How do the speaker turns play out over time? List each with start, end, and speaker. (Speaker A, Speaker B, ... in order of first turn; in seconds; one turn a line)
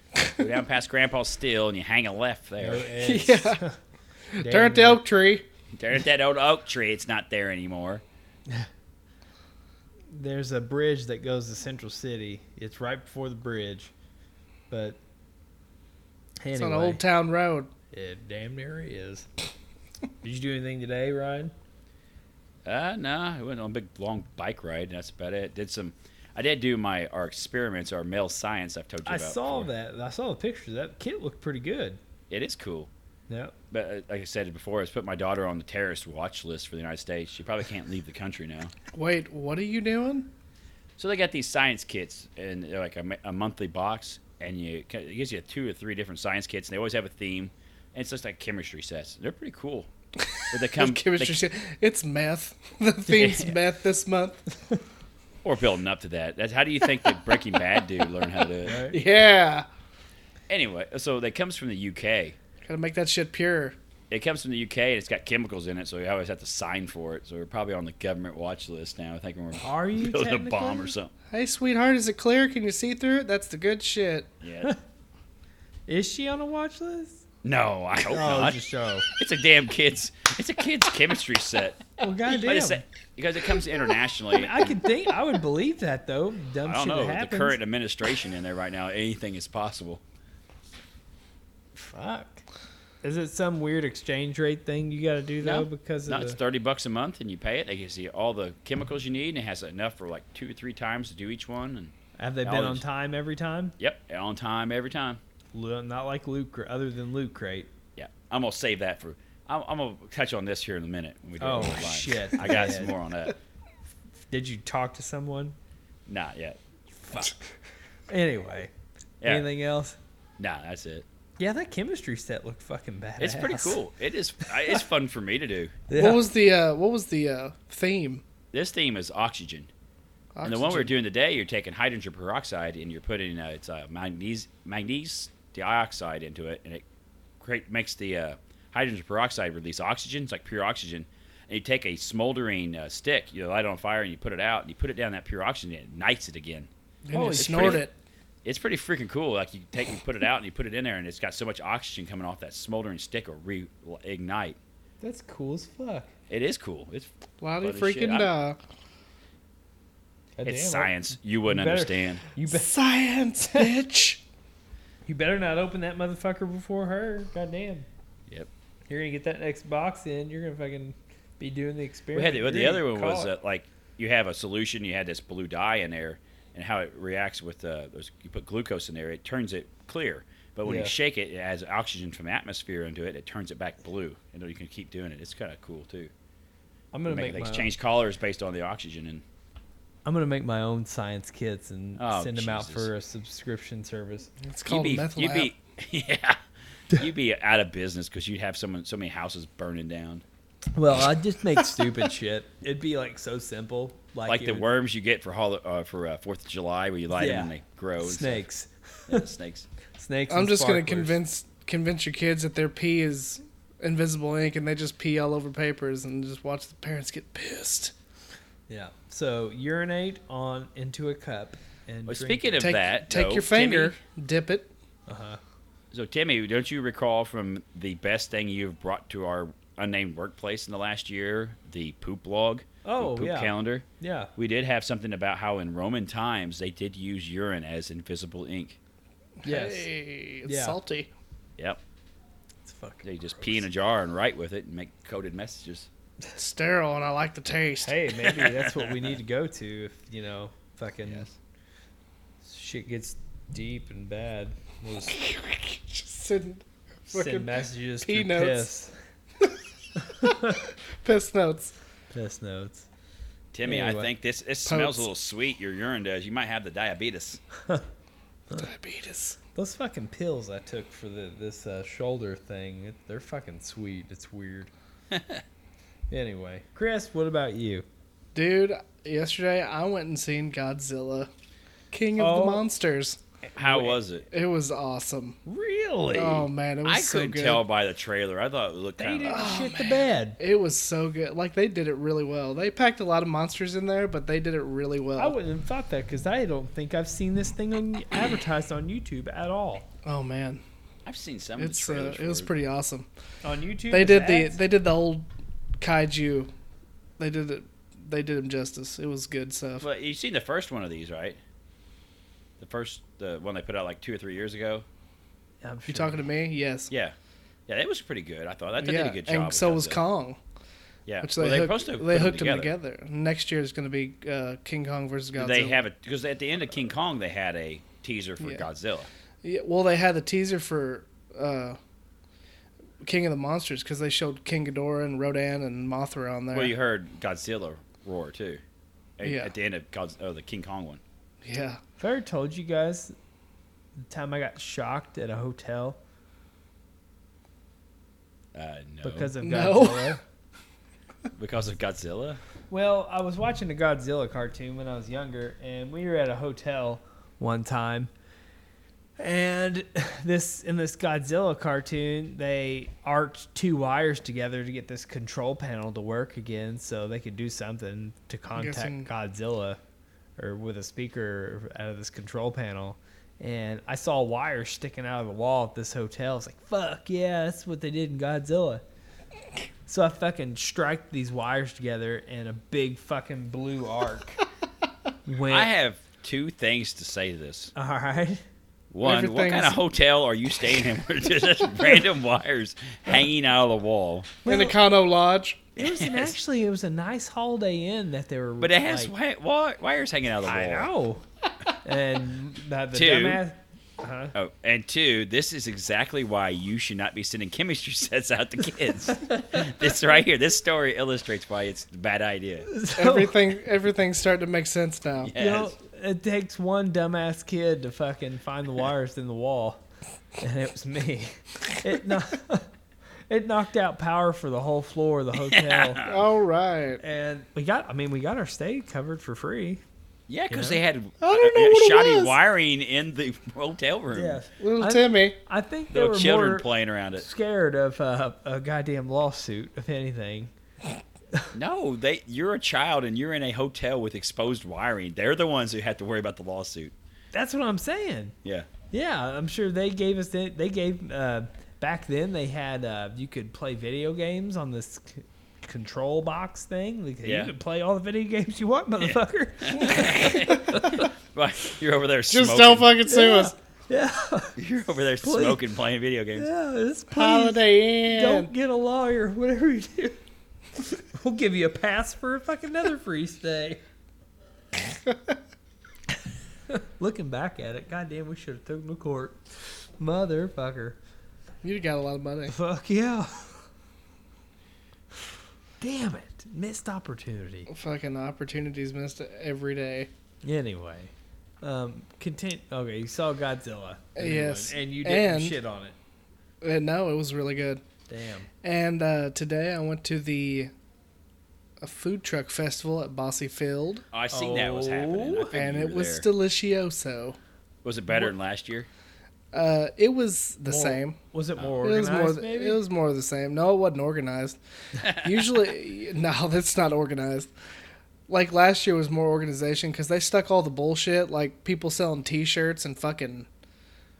Speaker A: 0.2-0.4
Speaker B: 0.4-2.9
Speaker C: 2.6-3.8
Speaker A: 3.0-3.6
Speaker A: 4.3-5.5
Speaker C: 4.4-5.0
Speaker B: 5.8-8.0
Speaker C: 10.1-13.9
Speaker C: 14.7-15.0
Speaker C: 16.4-17.0
Speaker A: 16.5-17.7
Speaker C: 17.9-19.3
Speaker C: 20.2-21.5
Speaker B: 22.6-29.7
Speaker C: 29.1-32.0
Speaker B: 32.3-32.9
Speaker C: 33.3-33.5
Speaker B: 33.7-38.7
Speaker A: 38.9-40.3
Speaker B: 41.0-49.9
Speaker A: 50.4-54.4
Speaker B: 50.5-51.4
Speaker B: 53.2-53.5
Speaker B: 55.4-58.8
Speaker C: 58.6-59.0
Speaker A: 58.9-59.6
Speaker B: 60.5-62.4
Speaker A: 62.6-63.8
Speaker B: 64.1-71.1
Speaker C: 69.6-70.9
Speaker A: 71.3-74.3
Speaker B: 74.4-74.7
Speaker C: 75.9-77.2
Speaker B: 77.4-78.6
Speaker C: 78.1-79.0
Speaker B: 79.1-84.7
Speaker C: 82.0-82.8
Speaker C: 84.3-87.6
Speaker B: 86.6-90.0
Speaker C: 91.8-92.4
Speaker C: 93.0-96.4
Speaker B: 95.4-102.8
Speaker C: 102.2-103.7
Speaker B: 103.8-105.2
Speaker C: 105.5-107.7
Speaker B: 108.0-113.3
Speaker C: 111.4-112.9
Speaker C: 114.3-115.5
Speaker B: 116.1-116.6
Speaker C: 117.0-117.3
Speaker C: 118.1-118.7
Speaker B: 119.2-119.5
Speaker C: 119.2-120.0
Speaker B: 120.4-121.0
Speaker C: 121.4-123.8
Speaker B: 123.2-125.8
Speaker C: 125.9-126.2
Speaker A: 125.9-128.2
Speaker B: 128.5-129.7
Speaker A: 130.3-130.9
Speaker B: 130.4-136.8
Speaker B: 137.4-146.7
Speaker A: 147.0-147.9
Speaker C: 147.1-147.8
Speaker B: 147.3-147.8
Speaker B: 148.4-154.6
Speaker C: 155.0-156.1
Speaker B: 156.3-158.3
Speaker A: 157.4-158.6
Speaker C: 160.4-162.7
Speaker B: 160.4-162.2
Speaker A: 162.5-164.2
Speaker C: 165.1-167.9
Speaker C: 168.9-173.3
Speaker B: 172.1-186.1
Speaker C: 180.6-180.9
Speaker C: 186.9-187.7
Speaker B: 187.1-189.2
Speaker C: 190.0-194.3
Speaker B: 191.9-192.9
Speaker A: 194.4-195.5
Speaker B: 194.7-196.4
Speaker B: 196.9-200.2
Speaker C: 200.7-204.7
Speaker B: 204.3-208.4
Speaker C: 207.1-209.2
Speaker B: 209.1-209.7
Speaker C: 210.0-211.2
Speaker A: 210.3-217.9
Speaker C: 218.7-222.7
Speaker B: 222.1-223.9
Speaker A: 222.6-224.7
Speaker C: 225.1-225.4
Speaker B: 225.9-233.8
Speaker C: 232.8-234.3
Speaker B: 234.3-238.8
Speaker A: 239.4-241.1
Speaker C: 239.4-239.9
Speaker C: 240.4-240.8
Speaker C: 242.6-243.6
Speaker B: 243.0-245.9
Speaker A: 246.3-247.9
Speaker C: 247.8-251.3
Speaker B: 248.4-249.1
Speaker B: 251.0-251.3
Speaker C: 252.4-255.2
Speaker A: 255.1-258.7
Speaker C: 257.1-258.9
Speaker C: 260.2-260.6
Speaker A: 260.2-261.7
Speaker C: 262.1-262.9
Speaker B: 263.5-267.4
Speaker C: 263.6-264.1
Speaker A: 264.6-265.1
Speaker A: 268.5-269.4
Speaker C: 269.6-274.7
Speaker B: 275.1-275.4
Speaker C: 276.1-277.9
Speaker A: 278.3-281.3
Speaker A: 281.9-283.2
Speaker C: 282.2-282.6
Speaker C: 283.4-284.0
Speaker B: 283.6-284.3
Speaker A: 284.3-285.4
Speaker C: 285.4-286.5
Speaker A: 286.1-287.6
Speaker B: 286.8-289.5
Speaker C: 289.0-290.4
Speaker A: 289.3-295.4
Speaker C: 295.2-299.9
Speaker A: 300.0-300.6
Speaker B: 301.0-302.5
Speaker A: 301.6-303.1
Speaker C: 303.4-304.6
Speaker A: 303.9-305.2
Speaker A: 305.8-306.5
Speaker A: 307.2-309.9
Speaker B: 309.8-311.4
Speaker B: 312.6-314.9
Speaker C: 315.6-316.2
Speaker A: 315.9-316.9
Speaker B: 316.9-317.1
Speaker B: 317.7-320.0
Speaker A: 318.8-320.4
Speaker B: 321.1-322.7
Speaker A: 321.2-325.8
Speaker B: 325.4-329.1
Speaker A: 328.4-328.6
Speaker A: 329.4-331.8
Speaker A: 333.0-336.7
Speaker B: 336.5-338.6
Speaker B: 339.2-341.0
Speaker A: 339.2-339.5
Speaker A: 341.4-341.8
Speaker C: 342.0-343.1
Speaker C: 344.0-346.0
Speaker B: 348.5-349.4
Speaker C: 349.0-350.2
Speaker A: 349.4-350.2
Speaker B: 351.4-352.4
Speaker C: 352.7-358.1
Speaker C: 359.2-369.8
Speaker A: 368.5-369.1
Speaker C: 370.4-378.8
Speaker C: 379.9-384.4
Speaker C: 385.2-385.7
Speaker B: 385.4-387.7
Speaker C: 387.7-388.4
Speaker B: 388.9-394.4
Speaker A: 389.0-389.8
Speaker C: 394.4-394.7
Speaker A: 394.4-395.6
Speaker B: 395.8-396.4
Speaker C: 395.8-399.1
Speaker B: 398.6-400.9
Speaker C: 400.4-401.2
Speaker C: 401.8-404.3
Speaker B: 402.9-403.4
Speaker B: 404.3-412.7
Speaker C: 409.3-409.6
Speaker C: 412.7-413.5
Speaker A: 412.9-415.3
Speaker B: 415.2-415.7
Speaker C: 415.4-419.8
Speaker C: 420.4-422.7
Speaker C: 423.3-426.0
Speaker B: 425.5-426.2
Speaker A: 426.0-427.0
Speaker C: 427.0-429.8
Speaker B: 430.3-434.4
Speaker C: 430.5-430.8
Speaker A: 431.2-432.4
Speaker C: 434.1-440.5
Speaker A: 434.6-435.4
Speaker B: 435.9-437.2
Speaker B: 441.5-446.9
Speaker C: 447.3-448.3
Speaker B: 448.4-448.7
Speaker C: 448.9-461.1
Speaker B: 457.2-457.5
Speaker B: 459.0-462.9
Speaker A: 462.3-463.5
Speaker C: 463.1-464.6
Speaker B: 464.6-466.5
Speaker C: 465.2-465.6
Speaker C: 466.3-470.2
Speaker A: 467.1-468.5
Speaker C: 470.9-473.8
Speaker C: 476.7-481.0
Speaker A: 481.6-482.5
Speaker C: 482.5-483.6
Speaker C: 485.8-487.7
Speaker A: 487.7-490.1
Speaker C: 490.4-495.9
Speaker A: 494.1-495.6
Speaker A: 496.6-497.8
Speaker C: 498.1-498.5
Speaker A: 498.6-500.7
Speaker A: 501.8-504.0
Speaker B: 504.1-506.2
Speaker C: 504.3-505.5
Speaker A: 505.5-507.4
Speaker B: 507.8-508.9
Speaker A: 509.5-511.2
Speaker C: 510.7-512.8
Speaker A: 511.8-514.6
Speaker B: 515.0-515.4
Speaker A: 515.1-517.5
Speaker A: 518.3-523.5